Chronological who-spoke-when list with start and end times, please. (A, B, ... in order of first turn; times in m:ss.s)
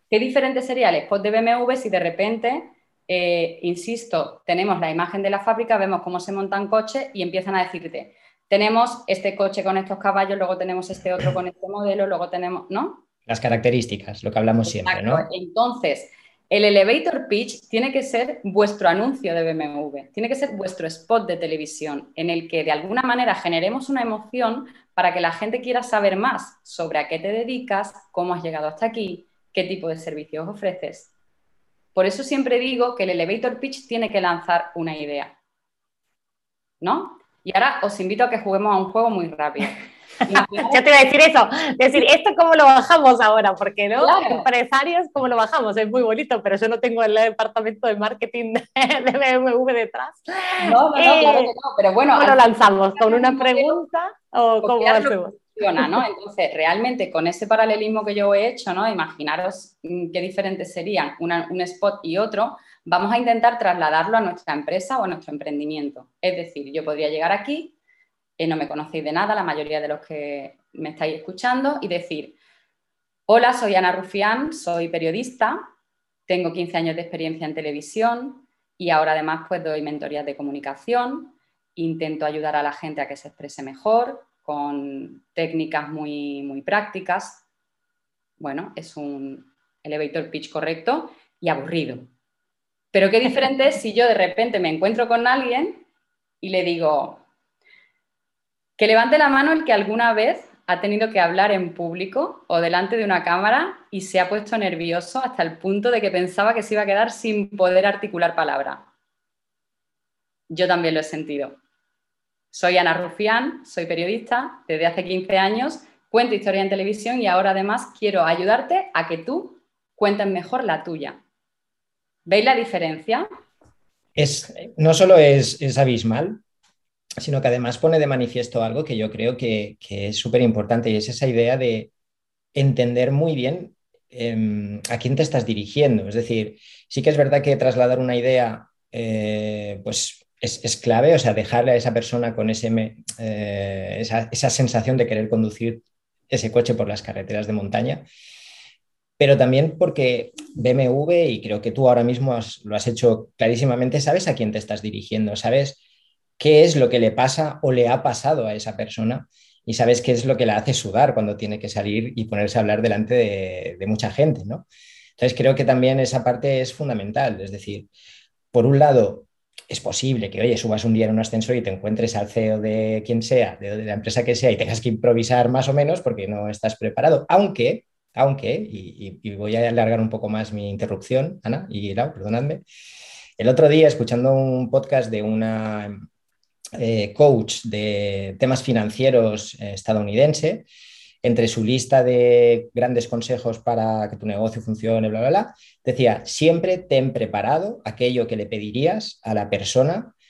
0:00.1-0:13.0 A
0:13.3-0:15.3 B
0:14.6-0:31.1 A
0:32.0-0:35.4 A
0:36.8-0:40.8 A
0:40.4-0:51.5 C
0:44.0-0:44.5 A
0:50.6-0:53.8 A
0:52.2-0:56.0 C
0:54.6-1:07.7 A
1:08.4-1:12.4 A
1:13.3-1:15.7 A
1:16.3-1:27.4 A
1:28.4-1:32.1 A
1:32.9-1:35.8 A
1:36.4-1:37.2 A
1:38.8-1:48.9 A
1:50.5-1:51.6 A
1:52.5-2:01.2 A
2:02.3-2:03.3 A
2:04.2-2:06.4 B
2:07.2-2:11.9 B
2:12.6-2:28.0 B
2:29.2-2:35.8 B
2:36.4-2:44.7 B
2:45.2-2:47.9 B
2:48.5-3:02.6 B
3:03.4-3:06.0 B
3:06.8-3:10.7 B
3:11.2-3:20.1 B